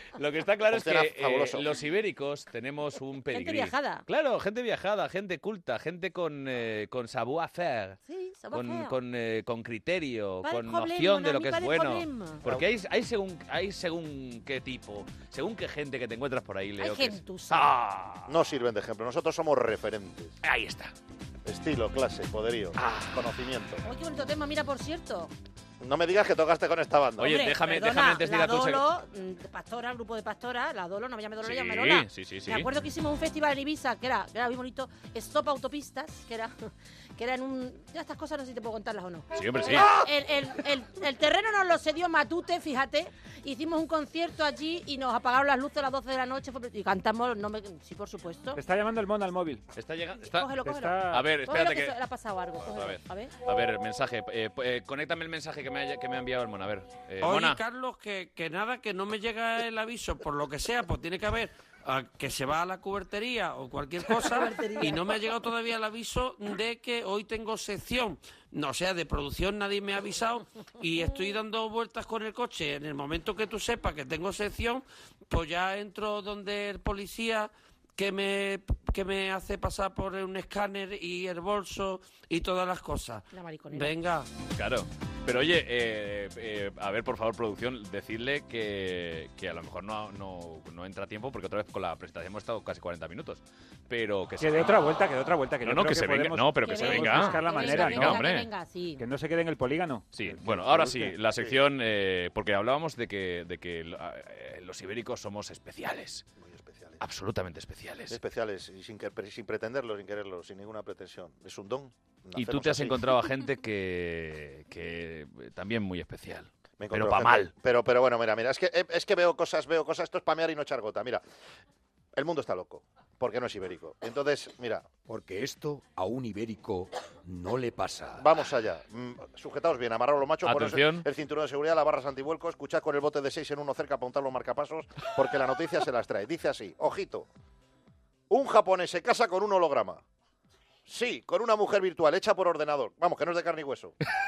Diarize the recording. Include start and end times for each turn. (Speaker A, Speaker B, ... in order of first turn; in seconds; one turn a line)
Speaker A: 0.2-8.0
Speaker B: 0.7-1.7
Speaker C: 3.3-4.0
Speaker C: 8.1-9.0
Speaker A: 8.5-18.3
Speaker C: 10.4-12.4
Speaker C: 16.8-17.8
Speaker B: 18.3-20.4
Speaker A: 20.4-20.9
Speaker B: 21.4-23.8
Speaker A: 22.8-23.2
Speaker C: 23.8-25.3
Speaker B: 25.8-27.4
Speaker A: 27.2-28.8
Speaker C: 27.2-48.6
Speaker A: 31.4-32.7
Speaker A: 39.4-40.0
Speaker D: 48.5-49.6
Speaker A: 49.8-50.5
Speaker C: 50.2-53.3
Speaker D: 50.6-51.2
Speaker A: 51.1-52.0
Speaker A: 52.6-57.6
Speaker E: 57.2-84.3
Speaker C: 64.2-65.2
Speaker C: 83.3-83.9
Speaker A: 84.5-94.8
Speaker D: 94.4-98.2
Speaker A: 95.6-98.5
Speaker C: 96.6-99.0
Speaker D: 99.0-100.1
Speaker A: 100.1-106.2
Speaker B: 100.4-101.6
Speaker B: 106.4-107.0
Speaker A: 107.0-108.2
Speaker B: 108.1-113.0
Speaker A: 112.3-117.5
Speaker B: 116.8-121.2
Speaker B: 122.2-124.9
Speaker F: 125.1-128.2
Speaker B: 128.2-137.3
Speaker A: 130.4-131.1
Speaker B: 138.3-140.0
Speaker B: 140.9-143.9